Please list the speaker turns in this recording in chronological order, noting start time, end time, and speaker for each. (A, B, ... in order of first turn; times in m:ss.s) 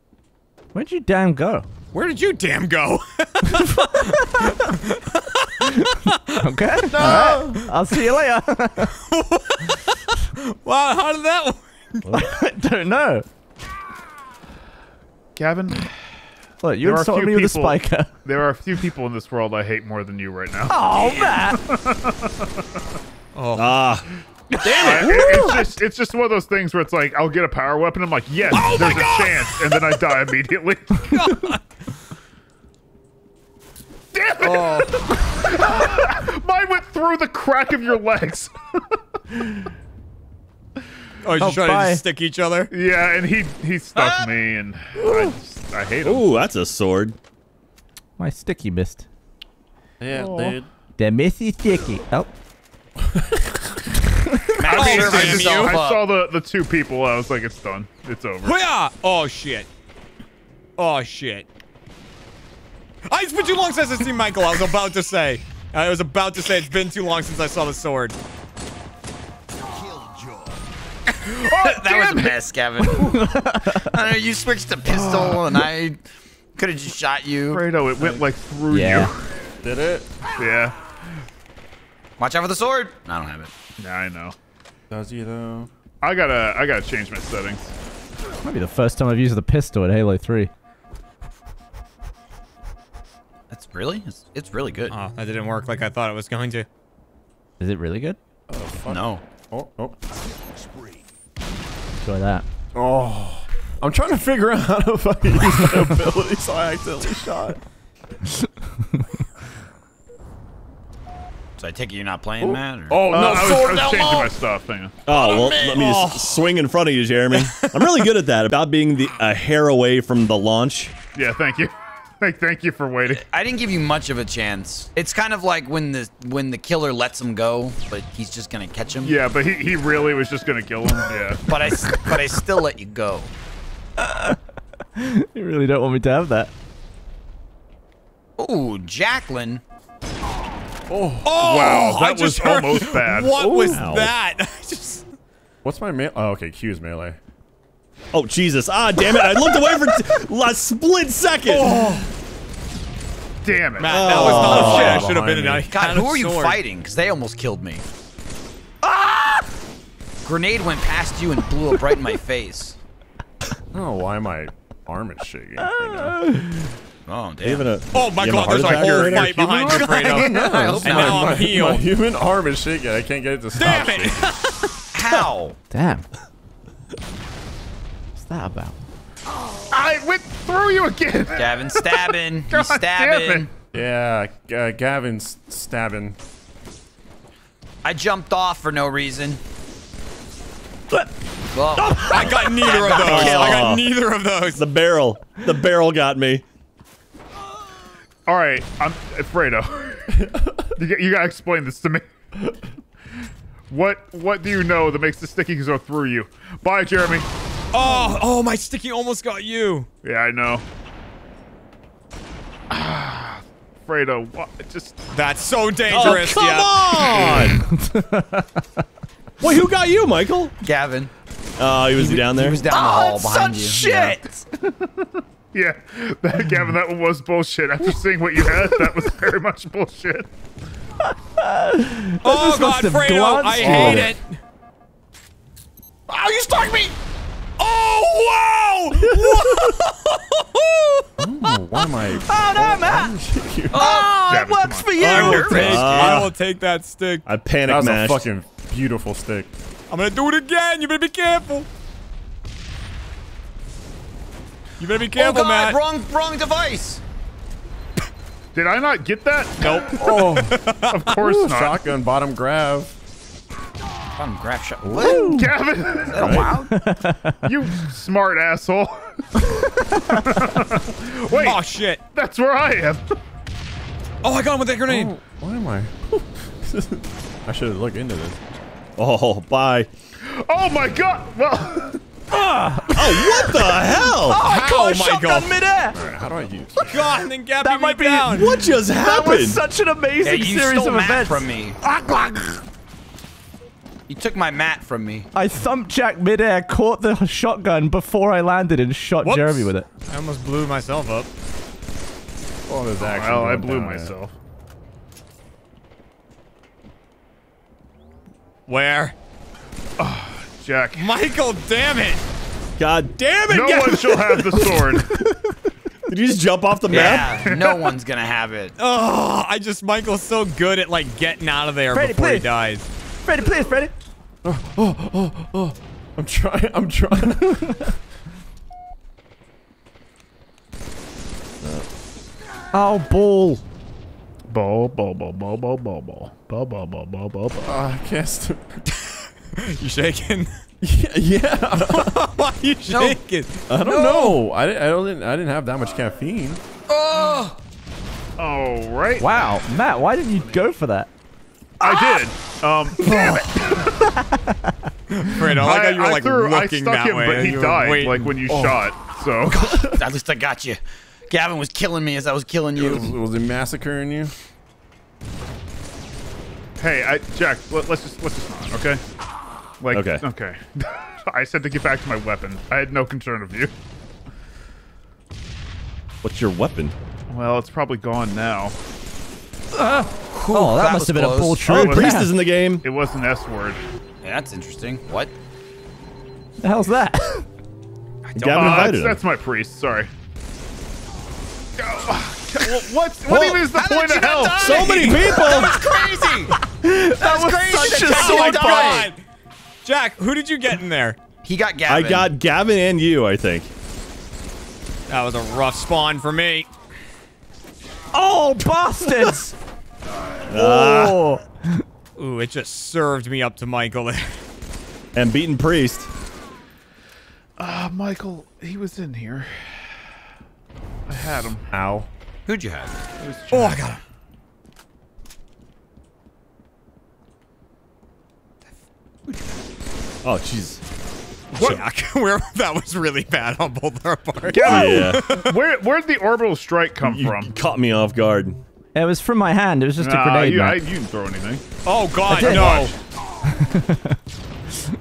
0:00.7-0:01.6 A
0:01.9-0:06.4 B
0:03.4-0:04.7 A
0:05.6-0:08.9 A
0:06.9-0:07.7 C
0:08.9-0:12.1 B
0:12.1-0:13.2 A
0:15.3-0:15.9 D
0:16.6-0:18.1 A
0:16.8-0:20.8 D
0:20.7-0:21.6 A
0:21.5-0:22.6 D
0:23.3-0:23.8 B
0:23.5-0:24.0 E
0:24.6-0:25.2 B
0:24.8-0:31.3 D
0:24.8-0:25.7 A
0:28.5-0:29.6 B
0:31.1-0:31.6 B
0:34.1-0:38.5 D
0:34.4-0:35.0 B
0:41.2-0:42.7 B
0:41.4-0:42.0 A
0:42.7-0:46.2 D
0:46.0-0:47.2 E
0:48.2-0:49.0 A
0:50.0-0:50.7 C
0:50.1-0:50.6 D
0:51.0-0:52.3 A
0:53.0-0:53.8 C
0:54.6-0:56.1 F
0:54.6-0:58.6 D
0:54.7-0:55.8 B
0:58.4-0:59.7 B
1:00.8-1:01.4 B
1:03.1-1:08.1 B
1:11.3-1:12.4 D
1:11.4-1:16.0 F
1:12.9-1:13.9 A
1:14.8-1:15.7 D
1:16.6-1:17.7 F
1:17.5-1:19.1 D
1:18.7-1:19.1 A
1:19.6-1:20.1 C
1:20.4-1:20.8 D
1:22.2-1:23.5 F
1:23.8-1:24.3 D
1:24.9-1:25.7 C
1:26.0-1:27.7 D
1:28.4-1:30.5 A
1:33.5-1:34.9 F
1:34.9-1:36.7 B
1:37.6-1:38.2 A
1:38.5-1:40.0 C
1:38.8-1:39.2 F
1:42.0-1:42.4 A
1:42.7-1:47.6 C
1:45.5-1:45.8 A
1:51.6-1:53.2 F
1:52.4-1:54.3 C
1:53.0-1:55.0 D
1:55.0-2:00.9 E
1:55.1-1:55.8 C
1:55.7-1:56.5 B
1:57.3-1:58.1 B
2:01.1-2:03.2 D
2:03.1-2:09.2 F
2:09.0-2:11.5 D
2:11.5-2:13.3 F
2:14.0-2:14.4 A
2:15.0-2:16.5 A
2:18.4-2:19.6 F
2:20.9-2:21.5 C
2:21.2-2:25.0 B
2:21.4-2:23.5 D
2:23.4-2:23.8 C
2:23.7-2:24.1 E
2:25.6-2:27.2 C
2:28.1-2:31.8 E
2:31.5-2:32.1 B
2:33.4-2:34.9 D
2:33.8-2:36.6 B
2:33.9-2:35.0 E
2:34.2-2:35.7 C
2:34.7-2:35.0 F
2:35.7-2:37.8 F
2:38.8-2:39.4 A
2:40.2-2:42.8 F
2:43.7-2:46.6 C
2:45.7-2:46.5 A
2:47.1-2:47.7 F
2:47.4-2:49.8 E
2:47.9-2:51.9 B
2:48.5-2:50.4 D
2:49.6-2:51.5 F
2:49.9-2:54.2 C
2:53.6-2:54.9 B
2:54.9-2:55.6 F
2:55.7-2:56.1 A
2:58.2-2:58.8 A
2:59.7-3:03.5 D
3:01.3-3:03.5 F
3:03.7-3:06.2 C
3:07.8-3:09.4 F
3:11.5-3:13.8 F
3:11.8-3:12.2 A
3:11.8-3:14.6 B
3:12.8-3:13.9 E
3:14.5-3:16.4 E
3:18.2-3:20.0 D
3:20.1-3:20.7 C
3:20.8-3:22.0 D
3:23.7-3:27.3 D
3:27.7-3:29.9 B
3:30.0-3:30.6 D
3:32.7-3:35.0 D
3:35.1-3:37.5 B
3:35.9-3:37.6 E
3:37.8-3:38.6 A
3:39.4-3:40.5 E
3:40.6-3:41.1 F
3:41.6-3:42.7 E
3:41.9-3:44.2 F
3:42.7-3:44.4 A
3:45.5-3:50.3 D
3:51.0-3:54.1 A
3:52.2-3:54.4 B
3:53.5-3:54.2 C
3:56.1-3:56.9 C
3:57.6-4:01.0 B
4:01.2-4:03.9 C
4:02.1-4:03.1 A
4:03.7-4:04.5 F
4:03.7-4:06.2 A
4:04.3-4:05.1 D
4:05.0-4:06.3 E
4:05.0-4:05.7 F
4:05.4-4:07.2 B
4:07.2-4:08.3 E
4:07.7-4:09.5 C
4:09.9-4:11.7 B
4:14.8-4:15.8 B
4:15.2-4:17.0 F
4:18.5-4:20.2 D
4:19.6-4:21.0 B
4:20.0-4:22.9 C
4:20.8-4:21.8 D
4:24.2-4:25.5 F
4:24.9-4:25.5 A
4:24.9-4:25.2 C
4:25.2-4:26.6 D
4:26.0-4:26.9 F
4:26.1-4:26.6 C
4:26.7-4:27.5 A
4:27.3-4:31.6 D
4:29.9-4:30.3 A
4:31.3-4:32.0 B
4:32.1-4:33.2 D
4:34.2-4:35.1 B
4:34.9-4:38.4 C
4:39.0-4:39.9 E
4:40.2-4:42.0 D
4:42.3-4:46.0 A
4:42.9-4:44.4 E
4:44.4-4:45.5 B
4:45.9-4:47.0 C
4:46.8-4:48.6 B
4:47.6-4:52.6 A
4:48.3-4:49.6 E
4:50.2-4:51.8 F
4:54.1-4:55.3 F
4:55.3-4:59.8 A
4:59.2-5:01.3 B
5:02.7-5:04.1 C
5:03.1-5:04.3 D
5:08.7-5:09.1 B
5:10.0-5:11.0 D
5:11.0-5:12.2 B
5:12.8-5:14.7 E
5:13.5-5:15.1 D
5:16.1-5:17.4 E
5:16.9-5:18.7 F
5:17.4-5:18.0 D
5:18.8-5:22.9 B
5:21.9-5:22.5 A
5:23.2-5:23.9 A
5:24.4-5:28.0 C
5:31.6-5:31.9 E
5:32.7-5:33.6 A
5:34.5-5:37.8 D
5:37.6-5:38.8 C
5:38.9-5:40.6 B
5:40.8-5:42.1 C
5:41.9-5:44.4 B
5:42.9-5:43.2 F
5:43.7-5:46.6 C
5:46.9-5:47.6 F
5:48.4-5:49.6 D
5:49.2-5:51.1 A
5:51.8-5:53.5 D
5:51.8-5:52.2 A
5:53.0-5:54.8 A
5:55.1-5:58.3 B
5:55.5-5:59.8 D
5:58.5-5:58.9 C
5:59.5-6:00.0 C
5:59.6-6:03.1 F
6:02.8-6:04.3 C
6:06.8-6:09.0 D
6:09.8-6:13.7 D
6:09.9-6:10.2 E
6:16.2-6:16.9 E
6:17.3-6:18.7 D
6:19.7-6:22.3 A
6:20.3-6:21.8 F
6:21.7-6:22.8 E
6:21.7-6:22.3 D
6:22.8-6:23.8 D
6:24.2-6:25.3 F
6:26.6-6:27.4 A
6:28.3-6:29.0 F
6:28.4-6:29.2 E
6:28.5-6:30.1 D
6:31.8-6:36.5 D
6:33.3-6:33.7 E
6:33.7-6:36.5 F
6:34.5-6:35.8 E
6:36.5-6:39.1 A
6:37.2-6:39.1 F
6:37.8-6:39.2 B
6:39.8-6:41.2 B
6:41.4-6:42.3 F
6:41.9-6:43.7 E
6:45.1-6:46.7 B
6:48.1-6:49.5 A
6:50.5-6:51.2 E
6:50.5-6:51.8 A
6:52.2-6:54.4 B
6:55.1-6:56.1 E
6:57.6-7:00.0 D
7:01.1-7:01.6 D
7:01.7-7:02.1 C
7:02.4-7:03.0 F
7:03.2-7:03.8 D
7:03.5-7:04.0 B
7:10.2-7:10.8 E
7:11.6-7:15.6 B
7:14.4-7:17.5 D
7:14.6-7:15.3 E
7:17.0-7:18.6 E
7:18.9-7:20.8 A
7:20.0-7:21.6 D
7:21.8-7:22.9 B
7:22.3-7:22.9 A
7:22.5-7:22.8 F
7:23.4-7:24.1 A